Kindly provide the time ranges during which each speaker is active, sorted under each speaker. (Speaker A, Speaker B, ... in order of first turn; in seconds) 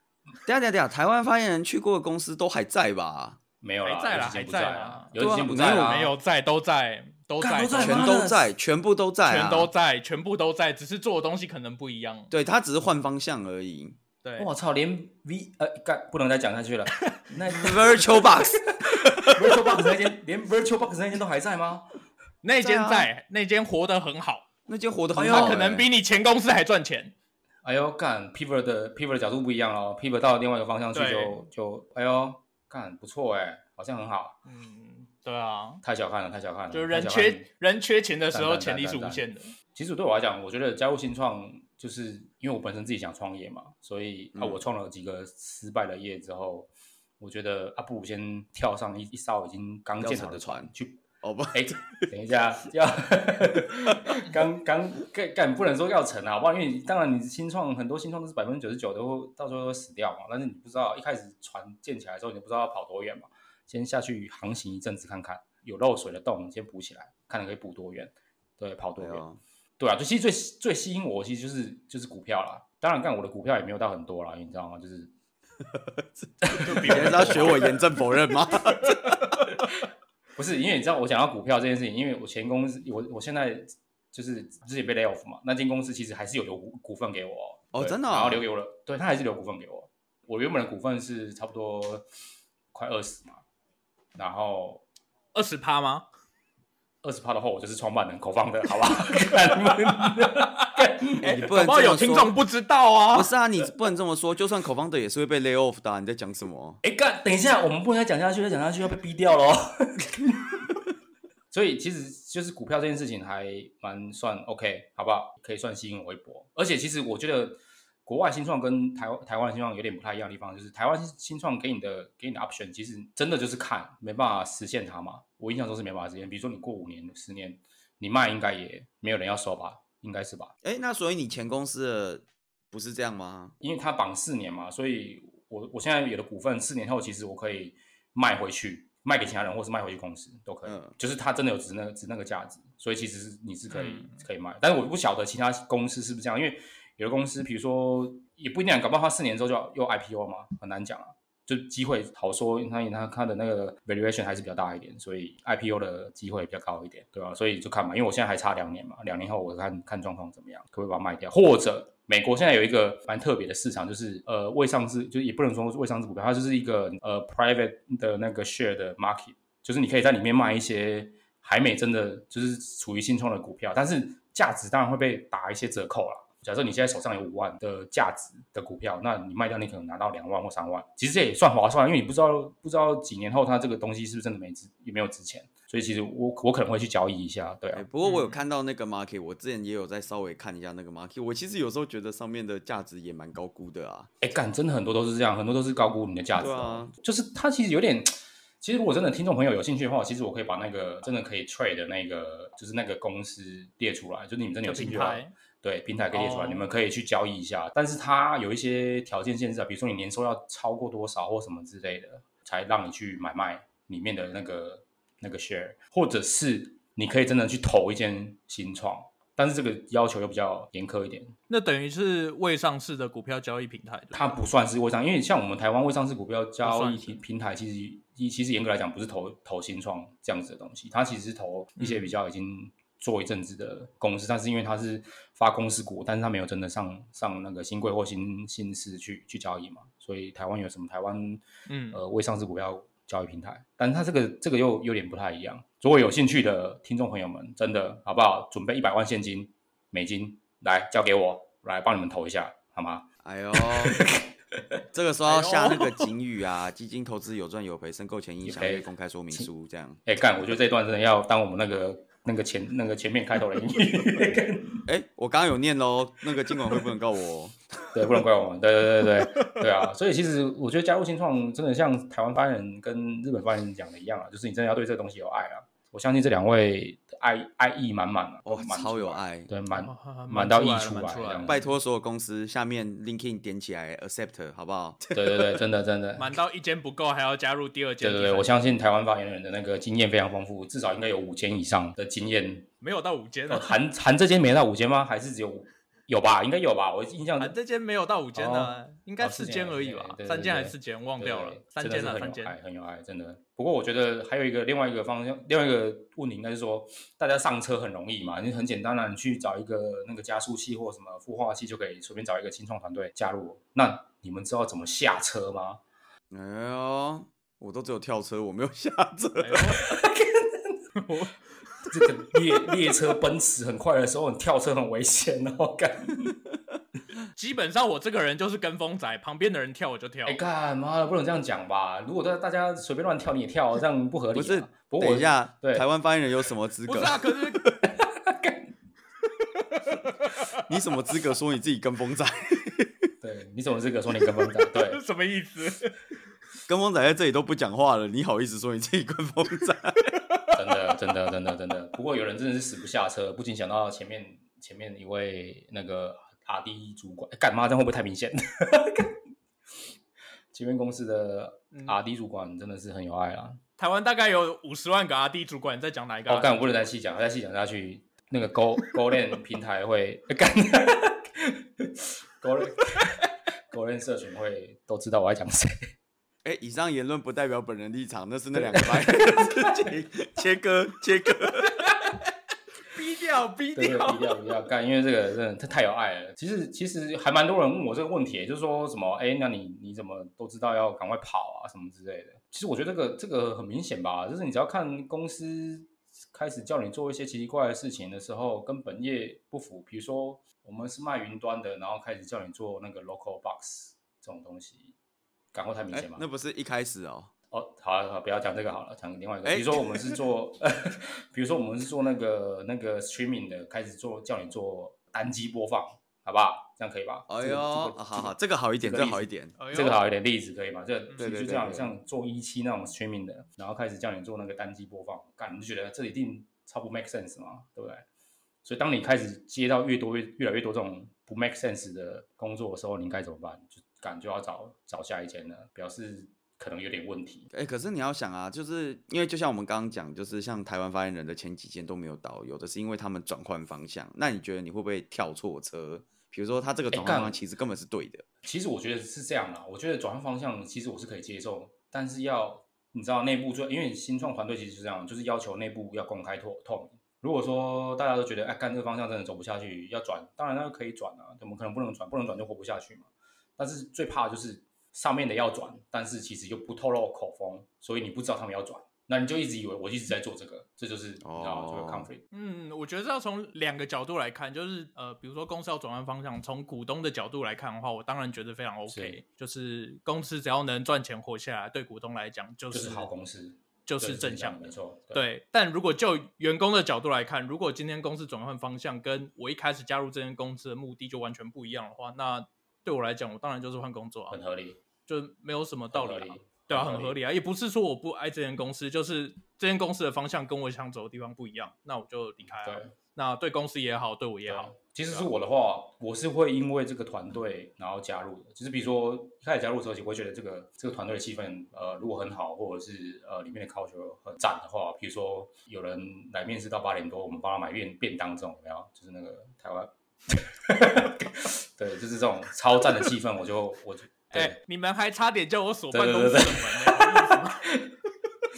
Speaker A: 0.5-3.4, 5.2-6.1, 7.8-9.7, 12.3-14.0, 17.5-19.5, 22.6-23.1, 24.7-25.9, 44.3-44.6, 50.0-52.0, 69.0-69.4, 75.6-79.2, 87.7-88.5, 101.2-102.3, 103.1-106.8, 130.6-133.6, 140.7-140.9, 187.7-194.1, 196.3-196.9, 253.2-254.0, 254.9-260.0, 264.9-267.6, 278.4-279.5, 281.4-285.6, 316.3-319.8, 334.3-337.8, 340.6-343.1, 346.7-350.0, 376.4-381.8, 405.9-407.3, 409.4-410.2, 417.3-419.5, 421.2-421.9, 437.5-448.2, 471.2-472.1
Speaker B: 3.6-6.1, 7.4-8.5, 14.4-21.9, 25.1-25.6, 27.6-34.4, 35.8-37.5, 38.3-39.2, 39.7-69.2, 69.8-75.1, 76.4-77.7, 80.3-92.0, 92.7-93.4, 94.2-94.8, 97.0-101.3, 106.8-110.5, 111.5-130.5, 133.6-187.8, 194.2-221.3, 224.1-254.3, 258.4-259.5, 260.1-264.8, 267.9-281.6, 285.1-286.3, 288.0-292.7, 293.5-297.5, 298.3-315.8, 319.8-320.7, 321.9-326.3, 330.2-335.9, 337.9-338.7, 343.2-345.0, 350.5-359.1, 360.5-363.6, 366.3-375.9, 378.7-379.7, 383.7-404.9, 405.5-406.2, 407.5-428.1, 428.6-437.5, 446.9-447.4, 448.4-472.2, 478.9-479.2, 482.7-485.2, 494.3-494.8, 495.9-497.1, 502.4-502.9, 504.5-524.6, 525.9-528.0
Speaker C: 3.8-8.1, 9.2-12.3, 14.2-14.5, 22.4-24.5, 25.2-27.1, 30.9-31.4, 34.5-35.8, 36.7-39.5, 76.6-77.8, 95.3-96.0, 99.9-100.5, 101.4-103.3, 143.7-144.2, 188.0-188.4, 204.7-205.3, 206.1-206.7, 221.5-224.3, 226.6-227.2, 231.8-232.1, 241.7-242.0, 255.2-256.0, 279.7-281.6, 286.2-288.6, 292.8-293.8, 297.4-302.6, 319.4-319.8, 320.9-321.3, 327.3-330.4, 336.9-337.7, 339.6-340.6, 344.7-345.9, 350.1-350.5, 363.8-366.8, 381.6-382.1, 382.9-384.4, 419.6-420.0, 421.1-421.4, 472.3-483.1, 483.9-494.4, 495.1-505.3, 524.3-527.7